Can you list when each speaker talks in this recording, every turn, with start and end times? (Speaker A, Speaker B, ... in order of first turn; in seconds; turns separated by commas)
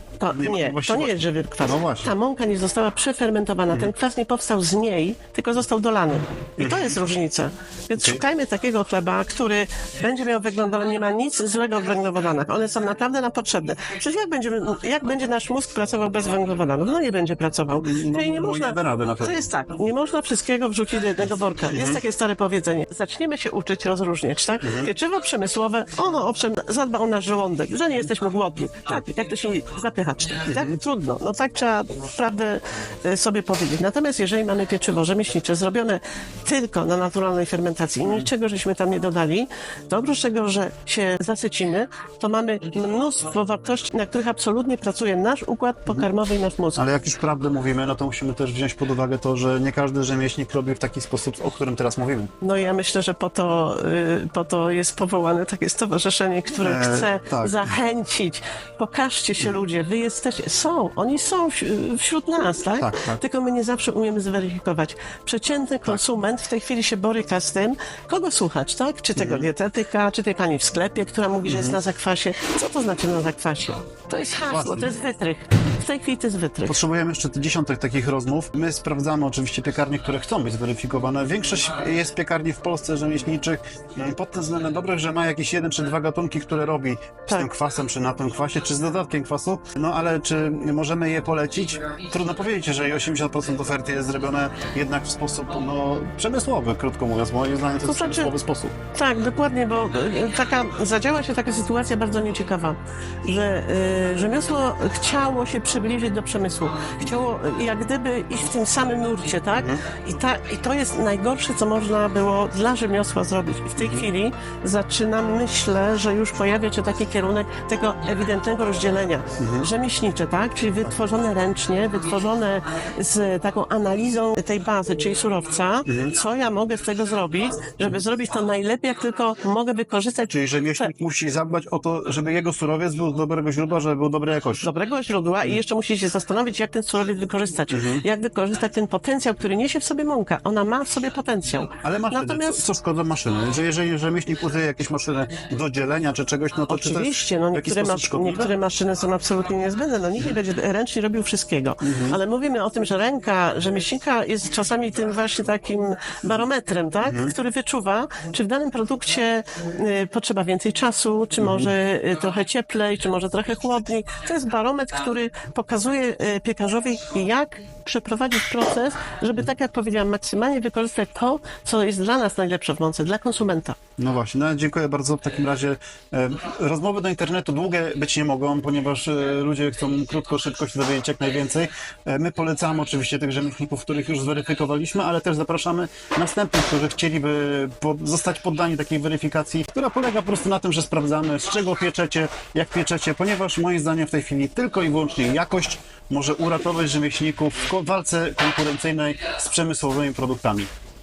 Speaker A: 0.2-46.8, Speaker B: 0.3-2.1, Speaker B: 6.6-6.9, Speaker B: 8.0-8.2, Speaker B: 17.8-19.4, Speaker B: 24.6-24.9, Speaker B: 30.5-30.8, Speaker B: 46.8-52.3, Speaker A: 52.4-76.8, Speaker B: 56.6-57.7, Speaker B: 62.8-63.2, Speaker B: 69.2-69.5, Speaker B: 71.5-71.8, Speaker B: 74.4-74.9, Speaker B: 76.7-98.7, Speaker A: 97.8-98.3, Speaker A: 98.9-130.9, Speaker B: 109.6-109.8, Speaker B: 119.4-119.7, Speaker B: 125.8-126.1, Speaker B: 130.3-134.7, Speaker A: 134.6-142.6, Speaker B: 137.7-138.0, Speaker B: 141.8-148.5, Speaker A: 146.7-173.8, Speaker B: 151.8-152.2, Speaker B: 161.4-161.7, Speaker B: 174.0-200.7